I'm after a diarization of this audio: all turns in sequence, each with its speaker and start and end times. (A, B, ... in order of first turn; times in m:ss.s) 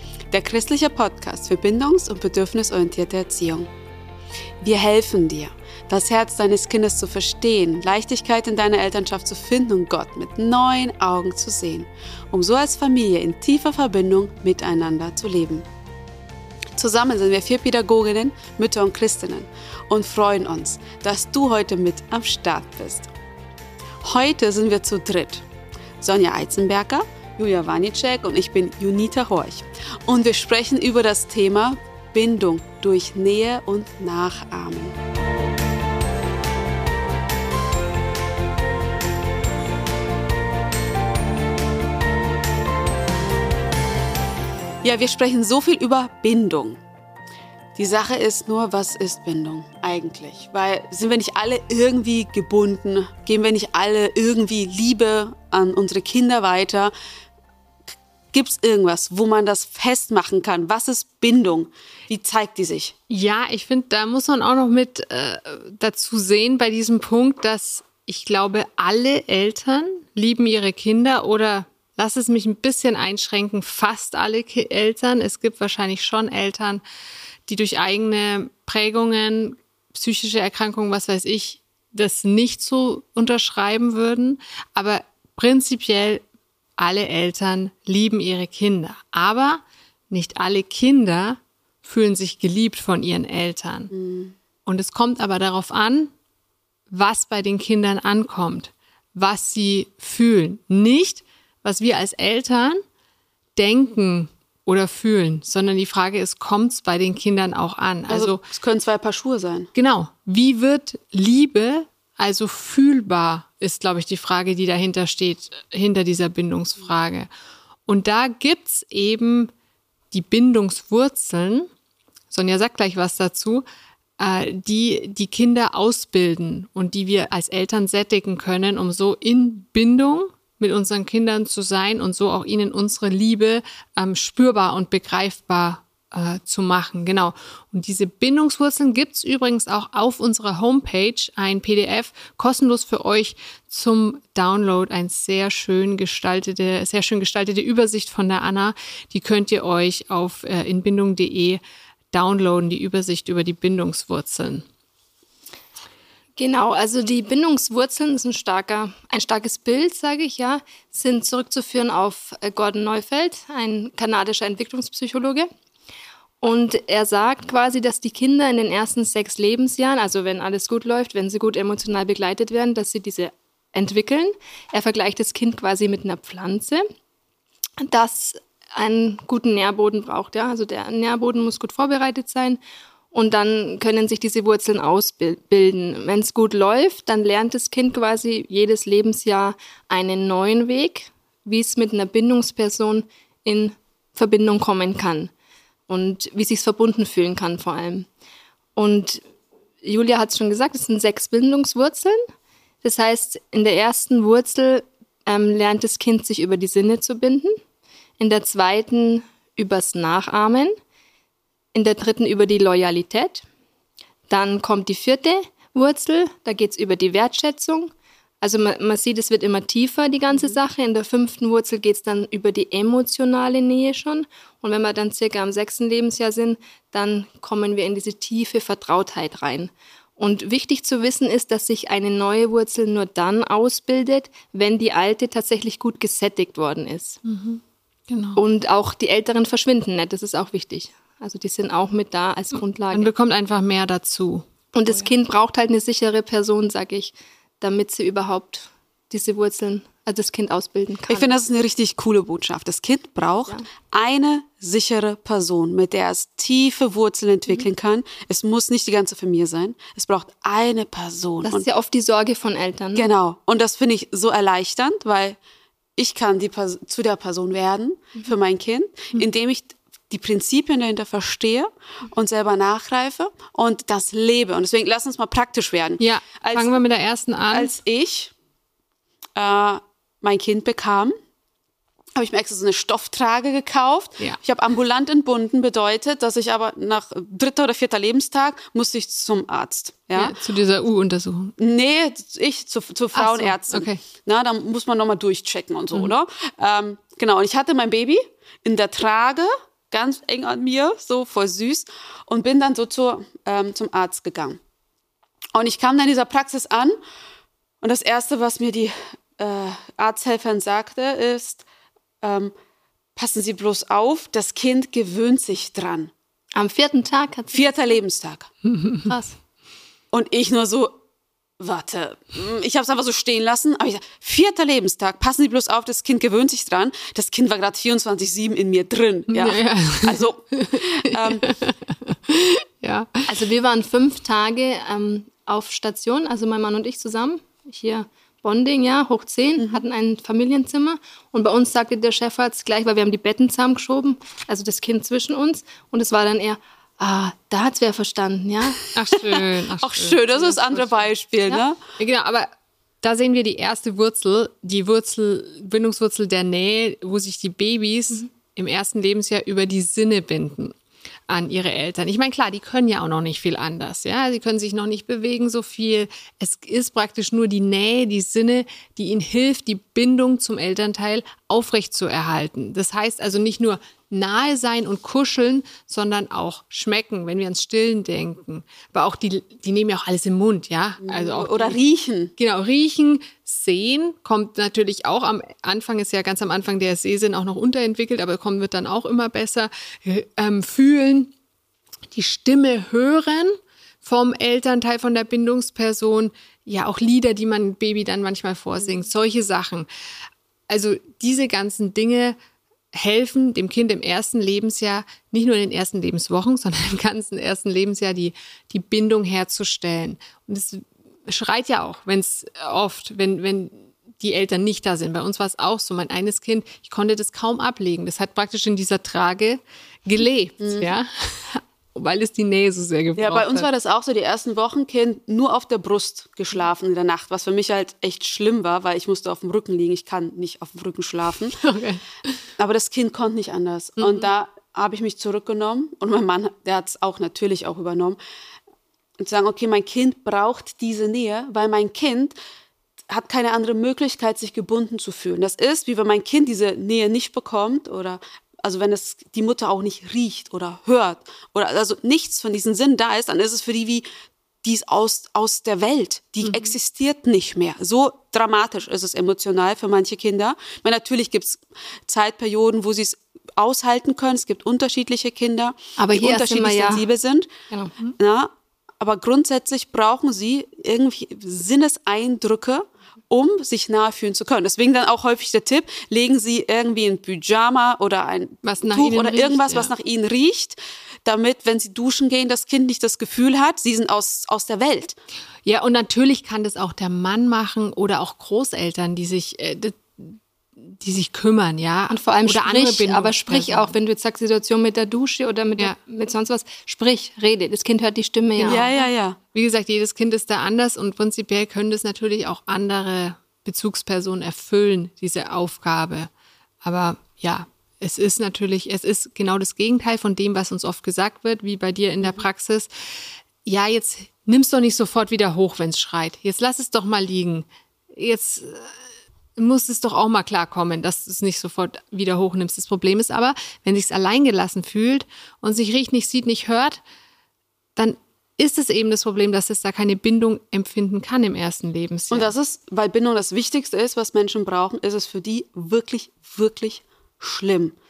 0:00.3-0:03.7 A
0:04.6-0:15.7 A
0:16.8-0:23.1 A
0:24.0-0:25.4 A
0:26.0-0:35.0 A
0:44.8-0:46.8 A
0:47.8-0:56.9 A
0:58.3-1:02.9 A
1:03.1-1:16.8 B
1:17.5-1:26.2 B
1:26.8-1:33.9 B
1:33.9-1:34.4 A
1:34.7-1:36.1 B
1:36.9-1:42.8 B
1:43.6-1:48.4 B
1:48.1-1:49.7 A
1:49.7-1:57.3 B
1:57.9-1:59.5 B
2:00.1-2:01.7 B
2:02.3-2:03.6 B
2:04.2-2:31.6 B
2:32.1-2:34.6 B
2:36.4-2:45.5 C
2:46.4-2:56.8 C
2:57.8-3:02.6 C
3:03.1-3:15.3 C
3:15.9-3:18.1 C
3:18.8-3:19.2 C
3:19.8-3:22.2 C
3:22.8-3:27.6 C
3:28.2-3:30.7 C
3:31.7-3:33.4 C
3:34.3-3:57.2 C
3:57.2-3:58.4 B
3:58.4-4:03.1 C
4:02.9-4:05.1 B
4:04.7-4:11.3 C
4:11.1-4:21.7 A
4:21.4-4:23.1 C
4:23.0-4:25.4 A
4:26.0-4:36.8 A
4:36.0-4:37.7 B
4:37.5-4:38.3 A
4:39.4-4:41.1 A
4:42.2-4:50.4 A
4:50.2-4:51.6 B
4:51.6-5:04.6 A
4:53.1-4:54.0 B
5:05.6-5:07.0 A
5:07.8-5:11.7 A
5:12.2-5:12.5 A
5:13.2-5:16.1 A
5:16.5-5:18.0 C
5:17.5-5:18.5 A
5:18.6-5:19.1 B
5:19.1-5:19.4 C
5:20.1-5:21.0 A
5:21.6-5:31.5 A
5:29.3-5:33.3 B
5:33.3-5:48.8 C
5:39.6-5:39.8 A
5:48.9-5:51.1 B
5:49.2-5:51.8 A
5:52.0-5:52.5 B
5:53.0-6:00.8 B
6:01.3-6:21.8 B
6:21.0-6:22.3 A
6:22.4-6:31.3 B
6:32.1-6:39.9 B
6:40.7-6:42.4 B
6:42.9-7:03.7 B
7:00.6-7:00.9 A
7:03.2-7:11.6 A
7:11.6-7:12.0 B
7:12.6-7:18.2 A
7:14.0-7:14.3 B
7:19.2-7:22.4 A
7:23.1-7:34.1 A
7:34.6-7:47.5 A
7:36.4-7:36.7 B
7:46.0-7:47.0 C
7:48.2-8:05.2 A
7:58.6-7:59.9 B
8:05.6-8:13.9 B
8:12.1-8:18.9 C
8:18.6-8:18.9 B
8:18.6-8:19.4 A
8:19.5-8:26.3 B
8:26.8-8:32.9 B
8:33.6-8:39.0 B
8:39.6-8:47.0 B
8:48.0-8:52.5 B
8:52.3-8:58.0 A